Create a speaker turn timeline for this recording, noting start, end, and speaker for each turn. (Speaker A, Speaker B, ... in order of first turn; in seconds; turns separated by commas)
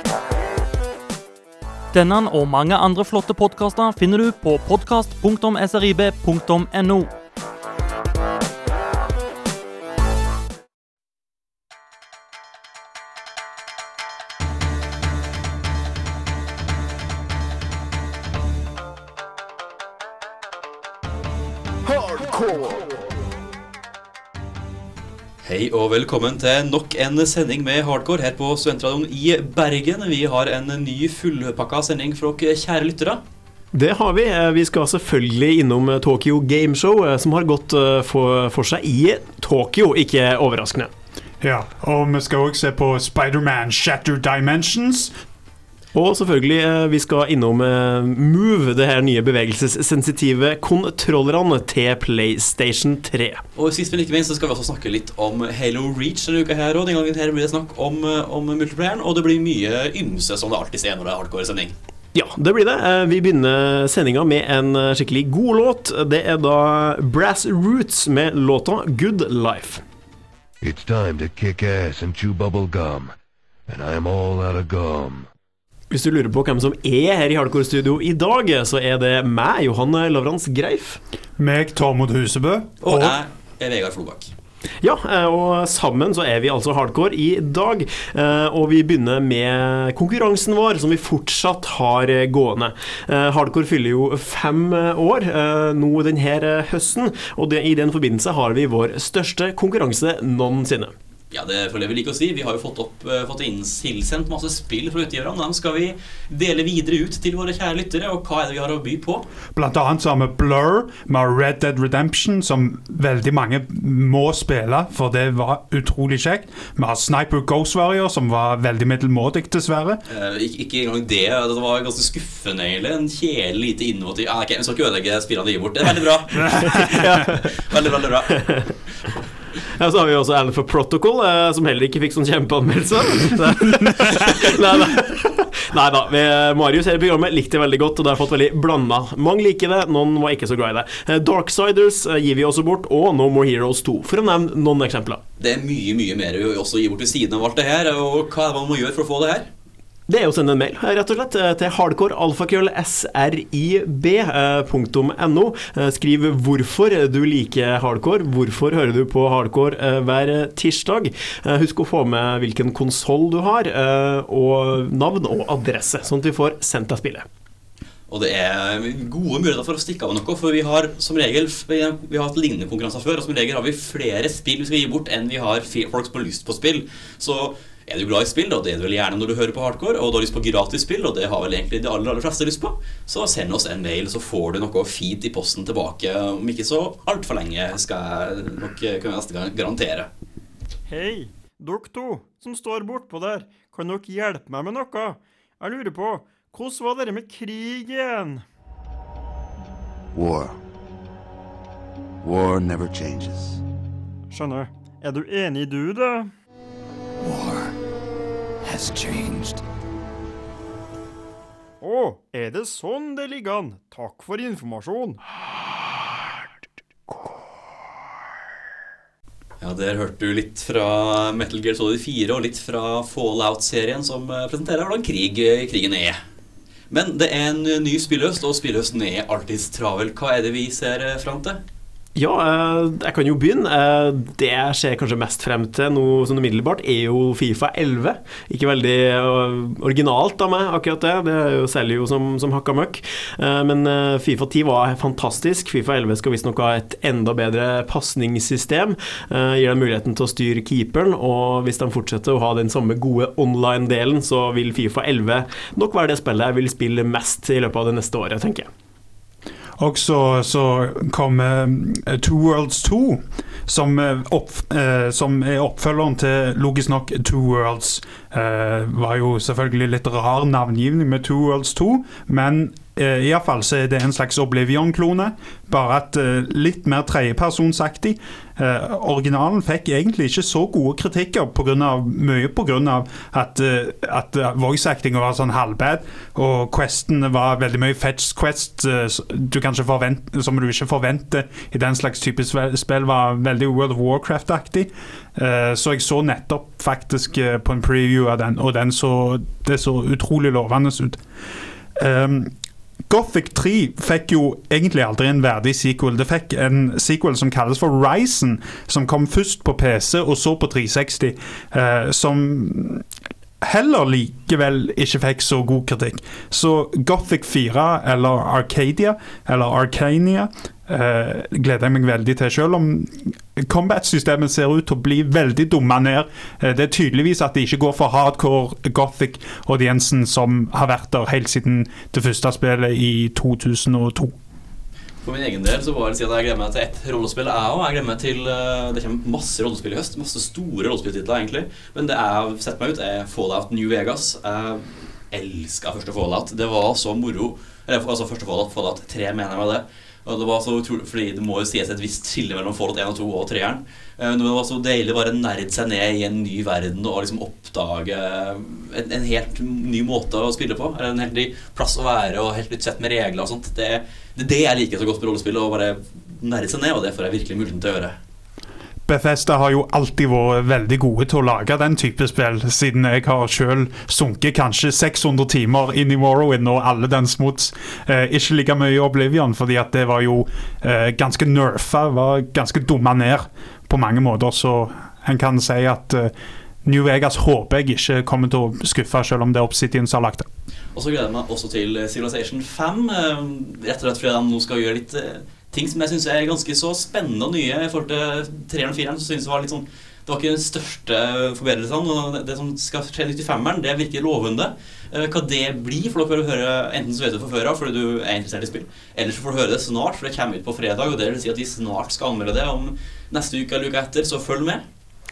Speaker A: 1.9-7.1, Speaker B: 25.4-33.2, Speaker C: 33.7-40.9, Speaker D: 41.4-45.1, Speaker C: 45.9-53.4, Speaker B: 53.6-61.7, Speaker C: 62.1-69.8, Speaker E: 70.6-73.1, Speaker E: 73.7-75.2, Speaker C: 75.9-81.0, Speaker D: 81.4-83.2, Speaker B: 82.8-84.3, Speaker C: 84.8-100.9, Speaker B: 101.3-109.3, Speaker D: 109.5-120.0, Speaker B: 120.1-126.9, Speaker D: 126.4-127.3, Speaker C: 126.8-127.4, Speaker B: 127.4-128.4, Speaker C: 128.3-128.7, Speaker C: 129.8-145.2, Speaker B: 145.4-149.5, Speaker C: 150.1-167.3, Speaker B: 168.1-190.1, Speaker F: 190.9-198.4, Speaker G: 200.1-200.6, Speaker G: 202.2-203.6, Speaker F: 204.3-206.3, Speaker G: 207.2-207.7, Speaker G: 208.6-209.6, Speaker F: 211.8-215.2, Speaker B: 219.6-226.2, Speaker B: 226.9-231.6, Speaker C: 232.2-258.7, Speaker D: 259.8-301.2, Speaker D: 302.0-302.5, Speaker D: 303.1-313.1, Speaker D: 313.6-334.3, Speaker B: 335.2-368.1, Speaker D: 369.1-386.3, Speaker D: 386.8-390.5, Speaker B: 390.9-414.8